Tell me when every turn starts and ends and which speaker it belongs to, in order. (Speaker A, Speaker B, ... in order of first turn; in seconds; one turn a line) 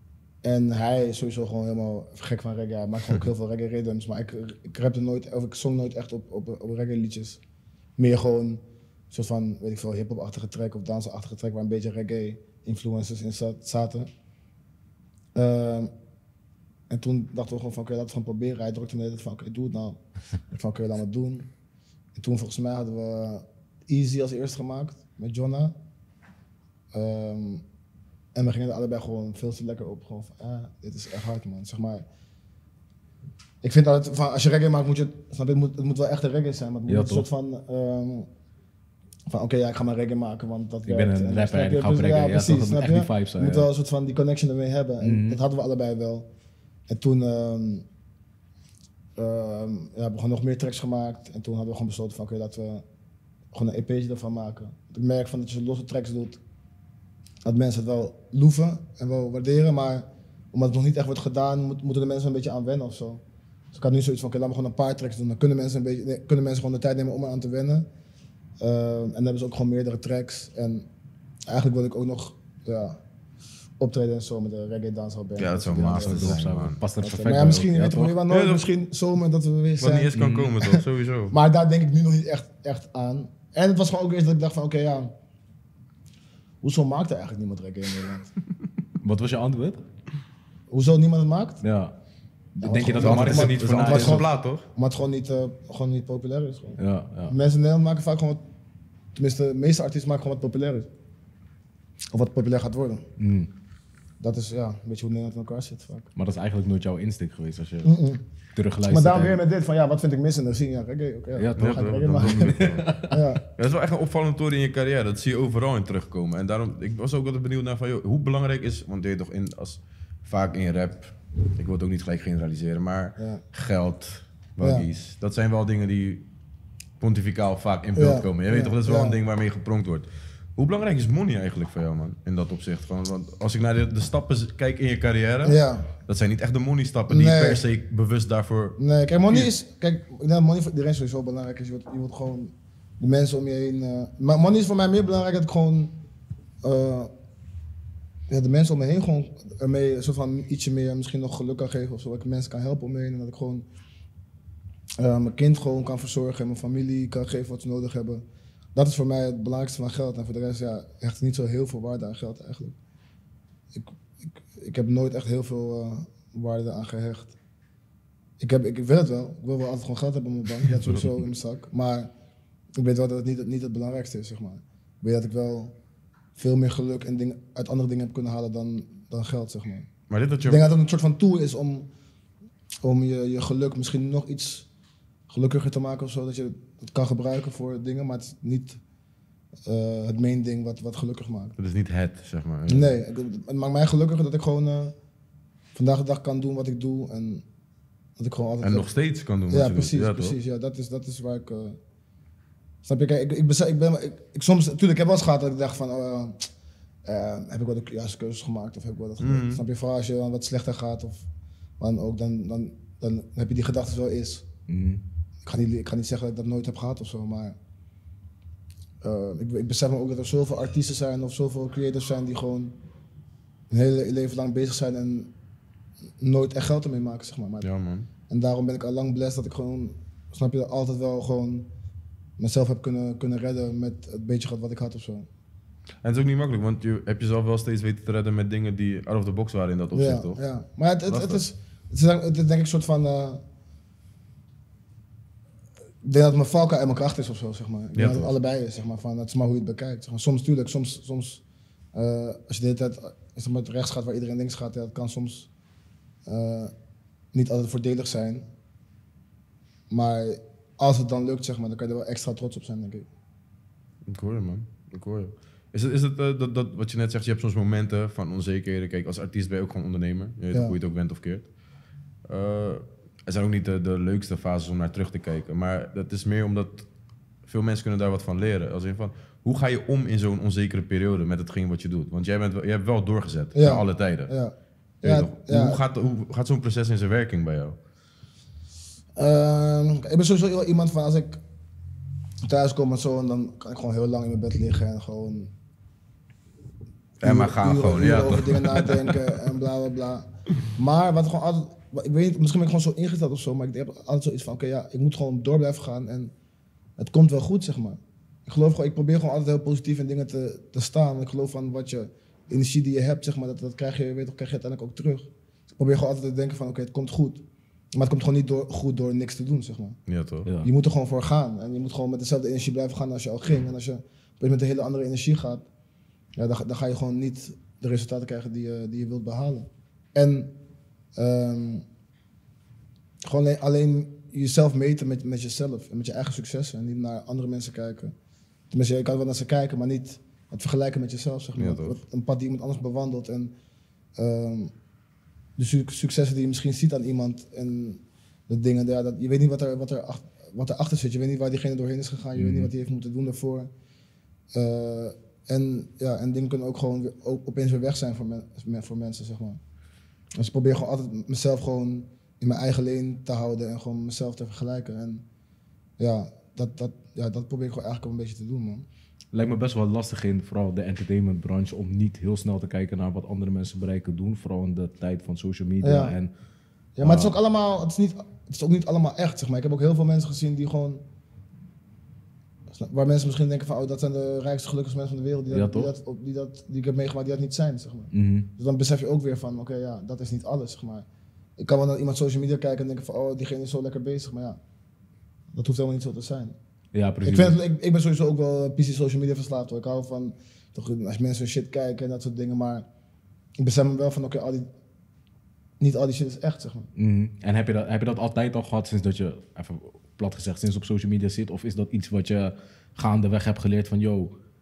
Speaker A: 0.4-7.4
Speaker A: 8.0-14.1
Speaker A: 15.3-15.9
Speaker A: 16.9-21.5
Speaker A: 22.1-25.8
Speaker A: 26.9-27.6
Speaker A: 28.4-32.1
Speaker A: 33.6-38.3
Speaker B: 36.9-37.3
Speaker A: 39.3-46.3
Speaker B: 40.9-43.7
Speaker B: 45.0-45.4
Speaker A: 46.9-47.9
Speaker A: 49.2-52.8
Speaker A: 53.5-56.4
Speaker A: 57.5-67.9
Speaker A: 68.6-70.9
Speaker A: 71.5-73.0
Speaker A: 73.8-76.4
Speaker C: 75.4-76.8
Speaker B: 75.7-78.2
Speaker A: 77.0-85.1
Speaker C: 78.3-78.7
Speaker C: 79.8-81.3
Speaker B: 80.1-80.6
Speaker A: 86.6-88.3
Speaker B: 89.0-89.8
Speaker A: 90.7-91.6
Speaker B: 91.6-92.0
Speaker B: 92.6-94.2
Speaker A: 92.6-98.4
Speaker C: 93.0-94.7
Speaker B: 96.8-97.3
Speaker A: 99.2-100.9
Speaker A: 102.1-103.1
Speaker B: 103.2-103.5
Speaker A: 104.2-106.1
Speaker B: 106.2-107.9
Speaker A: 107.8-108.2
Speaker B: 108.5-109.4
Speaker A: 108.9-113.4
Speaker B: 111.4-113.2
Speaker C: 111.6-112.9
Speaker C: 113.6-126.2
Speaker A: 123.2-123.4
Speaker A: 124.6-124.9
Speaker C: 127.0-139.5
Speaker A: 128.0-129.2
Speaker A: 135.4-135.9
Speaker A: 137.1-137.6
Speaker A: 138.8-145.9
Speaker A: 146.6-147.1
Speaker A: 148.3-153.7
Speaker A: 155.0-158.2
Speaker A: 158.8-162.8
Speaker A: 163.7-167.3
Speaker A: 168.4-172.1
Speaker A: 172.8-175.7
Speaker A: 176.3-179.9
Speaker C: 180.1-180.7
Speaker A: 180.4-181.9
Speaker A: 182.8-184.7
Speaker A: 185.3-188.8
Speaker A: 189.7-191.6
Speaker C: 191.6-193.0
Speaker A: 192.7-194.9
Speaker A: 195.8-197.4
Speaker A: 198.2-198.9
Speaker C: 198.6-200.3
Speaker A: 199.5-201.8
Speaker A: 202.8-206.5
Speaker A: 207.1-211.3
Speaker C: 209.2-209.6
Speaker A: 211.8-214.5
Speaker B: 214.7-215.0
Speaker A: 215.4-217.6
Speaker A: 219.0-222.7
Speaker A: 223.7-225.3
Speaker A: 226.2-227.7
Speaker C: 227.6-228.1
Speaker A: 228.3-231.7
Speaker A: 232.4-235.3
Speaker C: 236.0-240.4
Speaker A: 239.9-243.4
Speaker C: 241.1-241.4
Speaker A: 246.0-251.4
Speaker C: 247.9-248.3
Speaker A: 251.9-255.5
Speaker A: 256.3-256.7
Speaker A: 257.3-258.5
Speaker A: 259.9-263.1
Speaker C: 264.1-271.5
Speaker C: 272.3-276.9
Speaker C: 277.5-284.3
Speaker A: 283.5-285.8
Speaker C: 285.0-287.8
Speaker A: 289.2-291.4
Speaker A: 292.5-295.5
Speaker A: 297.2-306.3
Speaker C: 297.2-299.3
Speaker A: 307.0-317.4
Speaker A: 317.9-320.0
Speaker C: 320.1-320.5
Speaker A: 320.6-325.6
Speaker A: 326.4-330.5
Speaker A: 331.2-331.8
Speaker A: 333.2-338.1
Speaker A: 338.7-343.5
Speaker C: 341.6-342.0
Speaker A: 344.2-344.7
Speaker A: 345.6-353.7
Speaker B: 352.4-352.7
Speaker A: 354.6-359.6
Speaker A: 360.4-365.2
Speaker A: 366.0-368.9
Speaker B: 369.3-376.3
Speaker A: 375.8-376.1
Speaker A: 377.0-381.0
Speaker B: 377.0-377.4
Speaker A: 382.7-391.1
Speaker B: 385.5-385.9
Speaker B: 388.1-388.5
Speaker A: 391.6-394.6
Speaker A: 395.5-396.6
Speaker B: 396.9-397.6
Speaker A: 397.2-402.9
Speaker A: 403.6-404.7
Speaker A: 405.8-406.9
Speaker B: 407.0-414.3